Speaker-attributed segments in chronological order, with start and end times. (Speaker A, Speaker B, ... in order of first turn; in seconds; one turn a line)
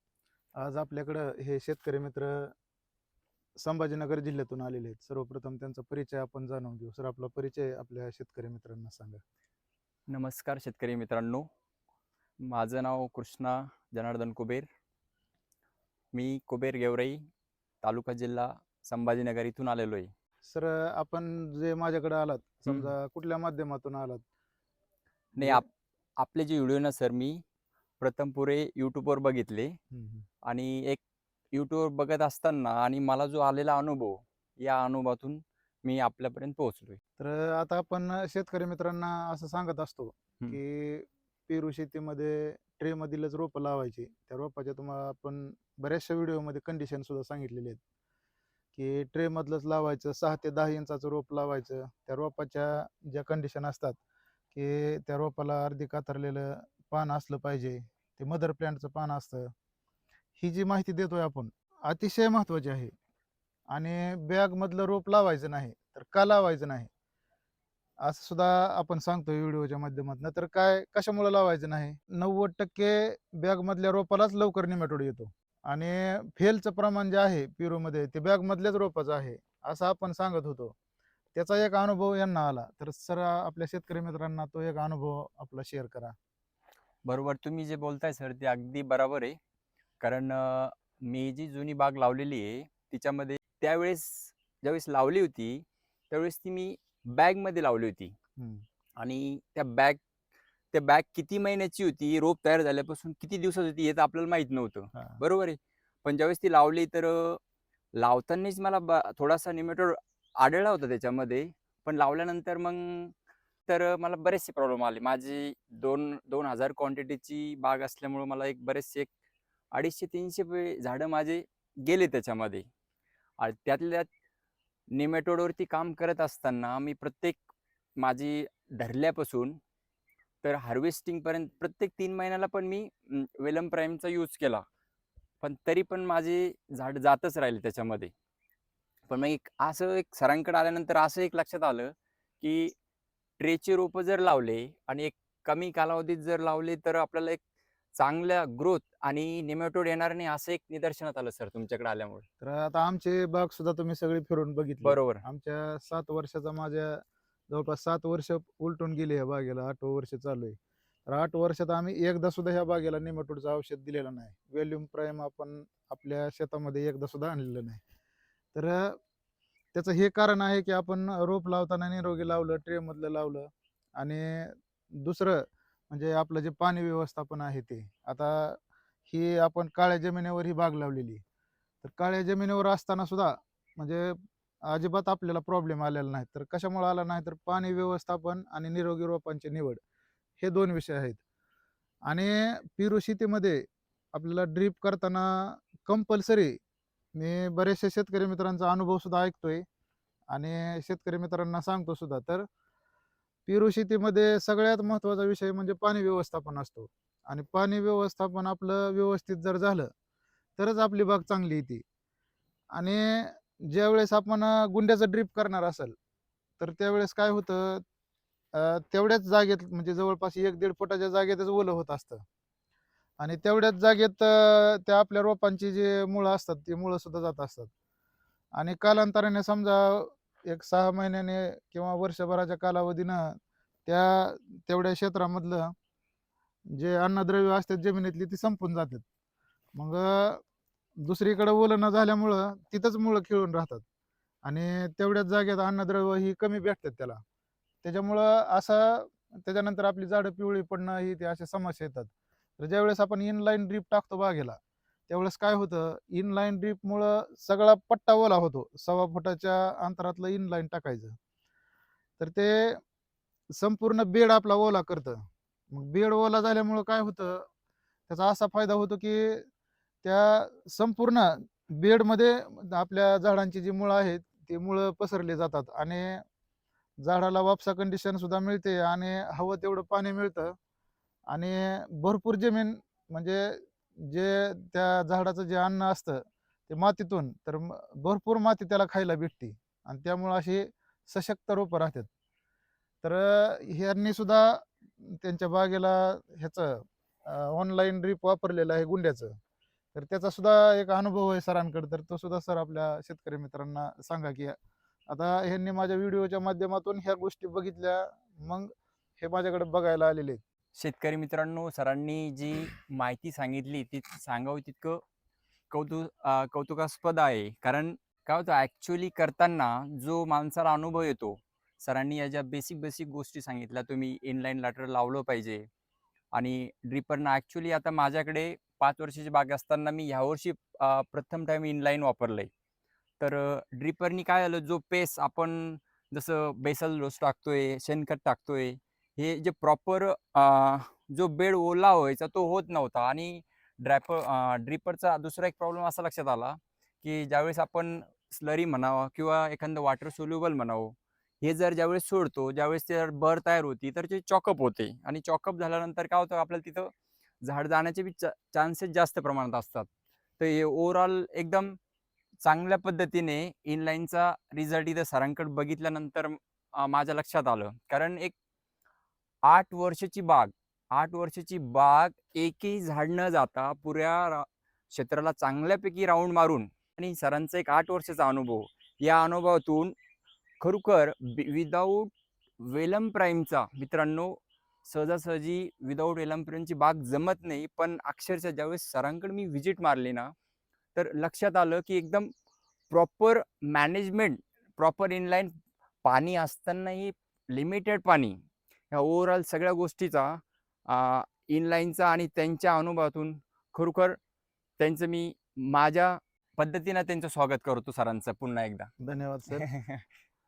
Speaker A: 0.6-2.5
Speaker A: 3.6-9.2
Speaker B: 10.1-11.4
Speaker B: 12.4-14.7
Speaker B: 16.1-17.3
Speaker B: 17.8-20.1
Speaker A: 20.4-24.2
Speaker B: 22.7-22.9
Speaker B: 26.2-27.4
Speaker B: 28.0-29.8
Speaker A: 29.9-30.2
Speaker B: 30.5-31.0
Speaker B: 31.5-37.0
Speaker A: 37.2-47.8
Speaker A: 48.7-54.0
Speaker A: 54.5-59.5
Speaker A: 60.4-62.9
Speaker A: 63.7-66.9
Speaker A: 68.0-80.7
Speaker A: 81.3-86.1
Speaker B: 87.0-89.4
Speaker B: 90.0-98.1
Speaker A: 98.4-98.6
Speaker B: 99.0-100.0
Speaker B: 100.7-107.4
Speaker A: 104.9-105.2
Speaker B: 108.0-113.1
Speaker B: 113.7-119.1
Speaker B: 119.7-122.7
Speaker B: 123.4-124.1
Speaker B: 124.9-127.4
Speaker B: 128.0-129.5
Speaker B: 130.4-134.6
Speaker B: 135.4-138.1
Speaker B: 139.1-142.7
Speaker B: 143.4-147.4
Speaker B: 148.0-152.2
Speaker A: 152.4-160.6
Speaker B: 154.8-155.2
Speaker A: 161.1-167.8
Speaker A: 168.5-169.0
Speaker A: 169.7-181.2
Speaker A: 181.8-184.2
Speaker A: 184.7-189.8
Speaker A: 190.4-191.2
Speaker A: 192.1-193.6
Speaker A: 194.1-196.6
Speaker A: 197.1-199.6
Speaker A: 200.3-202.4
Speaker A: 203.5-209.9
Speaker A: 210.6-211.8
Speaker A: 212.7-215.9
Speaker A: 216.6-217.8
Speaker A: 218.5-222.2
Speaker A: 223.2-227.7
Speaker A: 228.6-233.3
Speaker A: 233.8-235.7
Speaker A: 236.7-239.0
Speaker A: 239.8-240.4
Speaker A: 241.0-243.8
Speaker A: 244.4-247.2
Speaker A: 247.8-254.6
Speaker A: 255.1-261.1
Speaker A: 262.2-262.8
Speaker A: 263.6-265.2
Speaker A: 265.7-267.4
Speaker A: 268.1-269.4
Speaker A: 270.0-276.2
Speaker A: 277.0-280.5
Speaker A: 281.3-292.1
Speaker A: 293.0-299.4
Speaker A: 299.9-304.6
Speaker A: 305.1-310.4
Speaker B: 310.7-315.0
Speaker B: 315.7-325.6
Speaker B: 326.3-332.5
Speaker B: 333.2-356.9
Speaker B: 357.4-359.9
Speaker B: 360.4-361.7
Speaker B: 362.4-368.3
Speaker B: 369.5-379.9
Speaker B: 380.6-390.3
Speaker B: 390.9-392.3
Speaker B: 392.9-395.5
Speaker B: 396.0-398.4
Speaker B: 398.9-404.1
Speaker B: 404.8-408.9
Speaker A: 409.0-409.6
Speaker B: 409.6-410.1